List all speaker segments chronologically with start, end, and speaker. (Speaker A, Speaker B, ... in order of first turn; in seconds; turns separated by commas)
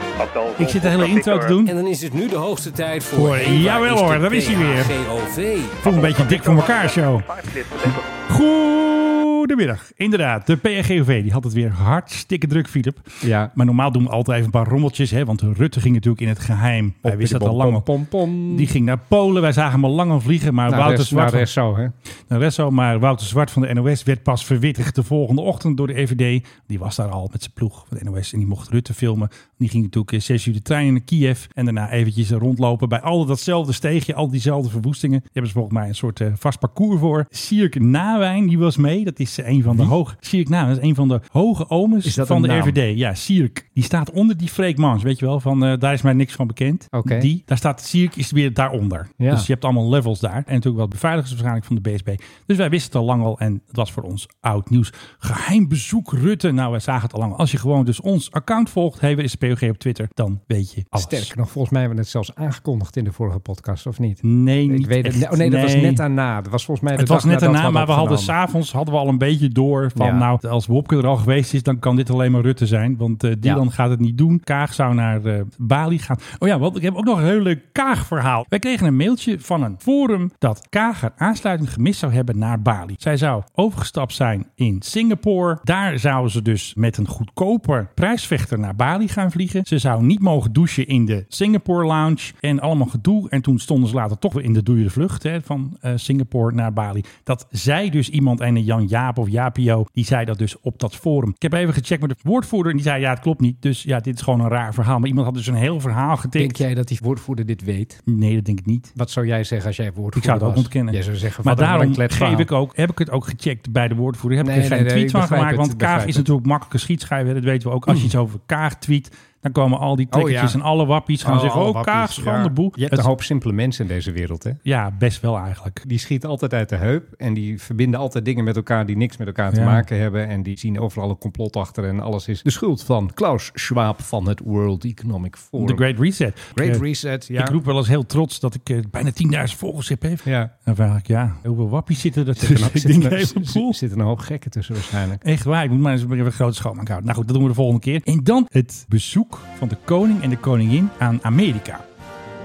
Speaker A: 0.5-1.8, Speaker B: 1.6-6.1, Speaker A: 3.1-5.0, Speaker A: 5.8-17.9, Speaker C: 13.2-13.5, Speaker C: 17.0-18.7, Speaker A: 18.5-21.5, Speaker C: 20.7-21.9, Speaker A: 22.3-61.3, Speaker C: 42.0-42.8, Speaker C: 46.9-47.3, Speaker C: 49.2-49.5, Speaker C: 60.9-68.3, Speaker A: 64.2-66.0, Speaker A: 67.0-106.6, Speaker C: 70.0-70.3, Speaker C: 106.4-108.0, Speaker A: 108.1-108.9, Speaker C: 109.0-112.5, Speaker A: 110.2-123.1, Speaker C: 114.4-116.3, Speaker C: 120.1-120.6, Speaker C: 121.2-124.6, Speaker A: 124.7-125.8, Speaker C: 125.8-135.8, Speaker A: 129.5-129.9, Speaker A: 135.6-143.8, Speaker C: 136.6-137.6, Speaker C: 140.2-140.5, Speaker C: 142.4-145.2, Speaker A: 145.2-151.8